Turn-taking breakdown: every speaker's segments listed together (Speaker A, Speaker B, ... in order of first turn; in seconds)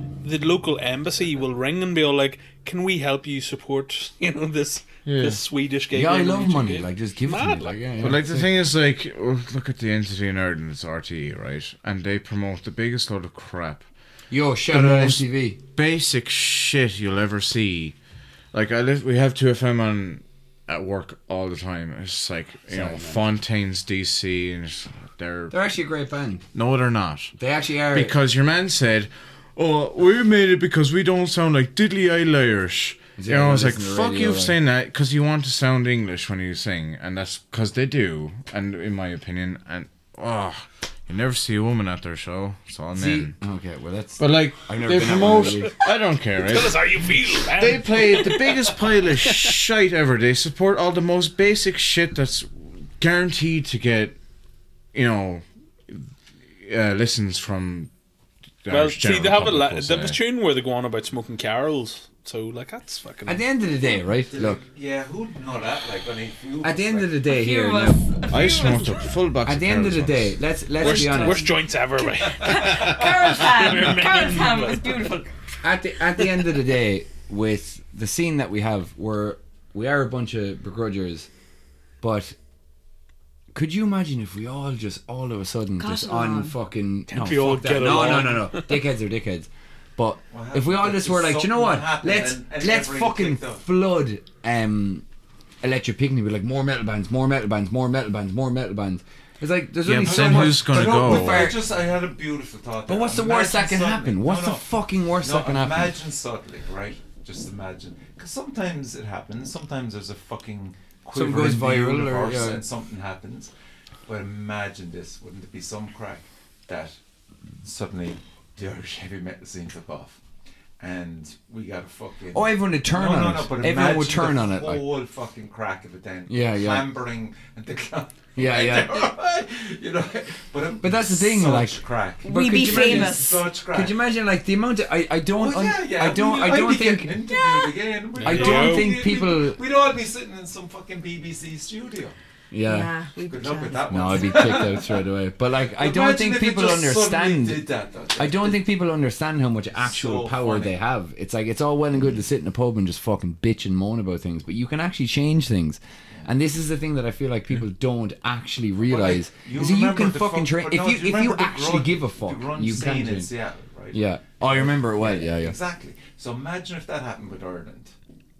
Speaker A: 0.2-7.8, 46.4-49.5, 58.7-63.4, 70.8-75.1, 87.1-88.8, 138.2-138.9
Speaker B: 5.0-5.4, 8.0-13.8, 14.7-17.9, 18.5-25.5, 26.5-27.3, 27.9-43.3, 44.2-54.1, 54.9-56.1, 56.6-57.9, 58.6-60.2, 68.3-70.4, 99.8-101.5
Speaker C: 5.9-8.5, 14.3-15.6, 22.7-23.2, 25.5-26.4, 27.4-28.1, 33.2-34.5, 42.9-45.7, 63.2-64.6, 66.6-68.5, 69.4-71.5, 75.6-81.3, 82.0-82.3, 83.5-95.0, 95.6-101.6, 102.9-105.9, 111.1-112.6, 122.3-124.8, 126.3-126.9, 128.3-129.1, 130.8-137.2, 138.2-139.6, 142.5-142.9, 143.9-147.6, 148.2-163.3, 163.9-165.6
Speaker D: 64.3-67.3, 90.3-93.6, 100.0-104.6, 105.2-113.5, 114.0-117.0, 117.6-120.2, 120.8-134.0, 135.3-142.1, 143.2-145.0, 145.7-148.6, 149.7-150.7, 158.8-167.9
Speaker E: 67.2-69.0, 70.8-71.5, 72.1-75.3, 85.8-86.5, 132.2-133.4, 137.3-137.7, 142.6-144.6